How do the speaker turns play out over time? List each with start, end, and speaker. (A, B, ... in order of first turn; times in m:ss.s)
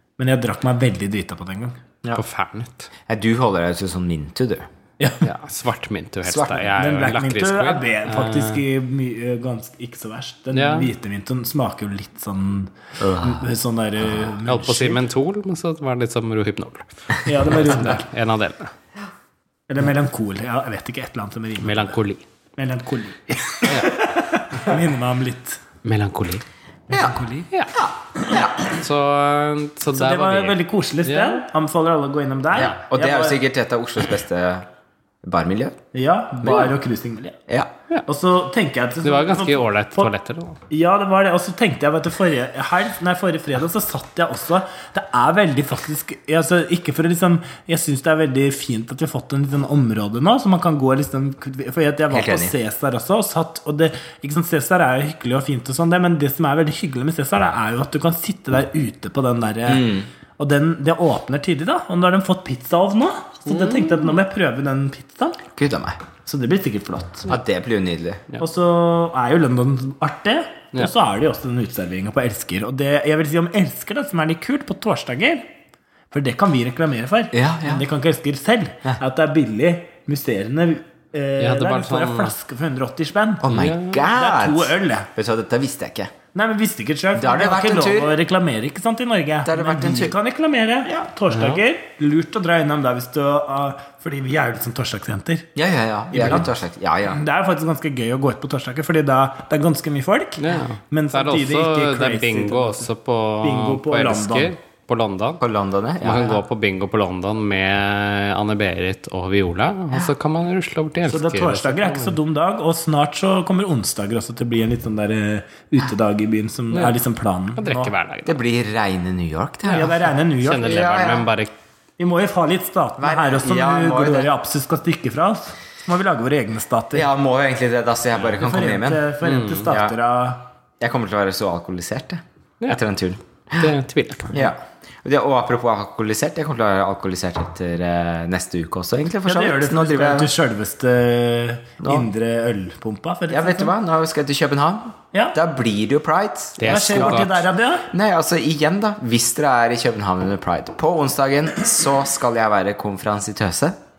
0:00.2-0:01.8 A
0:02.1-0:02.9 B
0:03.1-0:04.7 C
0:05.0-0:05.2 A
0:05.2-0:08.6 B
0:06.2-0:06.7 C
0:06.8-0:15.0 A
0:10.5-0:10.9 B
0:13.0-0:13.4 C
0:14.4-0:18.7 B
0:17.2-0:18.0 A
0:19.7-0:21.9 A
0:21.6-0:22.2 B
0:22.6-0:25.6 A
0:23.6-0:23.9 B
0:25.8-0:26.4 B
0:26.9-0:27.2 C
0:26.9-0:27.5 A
0:27.7-0:28.7 C
0:28.7-0:31.4 B
0:29.9-0:33.4 A
0:32.6-0:34.7 C
0:35.2-0:35.8 C
0:35.9-0:37.4 A
0:36.4-0:36.7 C
0:38.1-0:40.1 A
0:39.0-0:40.6 B
0:40.7-1:05.4 A
0:52.1-0:52.5 C
0:59.6-1:00.1 C
1:03.5-1:04.0 B
1:05.5-1:06.0 C
1:06.2-1:07.3 A
1:07.3-1:08.2 C
1:08.4-1:15.4 A
1:16.1-1:25.1 A
1:17.3-1:17.8 C
1:21.4-1:22.3 B
1:23.4-1:26.1 C
1:23.5-1:24.0 B
1:26.3-1:35.5 A
1:27.1-1:28.1 C
1:29.4-1:30.2 C
1:31.3-1:31.6 B
1:35.5-1:37.2 C
1:36.1-1:36.5 A
1:37.1-1:42.9 A
1:40.4-1:45.4 B
1:43.4-1:44.5 A
1:45.4-1:46.4 C
1:46.0-1:52.2 B
1:51.1-1:57.9 A
1:56.7-1:57.0 B
1:57.6-1:58.4 B
1:58.2-2:00.0 C
1:59.7-2:00.8 A
1:59.7-2:01.5 B
2:00.5-2:01.3 C
2:02.0-2:07.1 A
2:03.0-2:04.3 C
2:06.9-2:09.1 C
2:08.4-2:10.4 A
2:09.2-2:09.7 B
2:09.7-2:10.0 C
2:10.8-2:13.7 C
2:13.5-2:14.4 B
2:14.3-2:20.3 C
2:19.2-2:23.7 A
2:21.8-2:22.1 C
2:23.3-2:27.3 C
2:26.6-2:27.4 B
2:26.6-2:27.9 A
2:27.9-2:33.8 C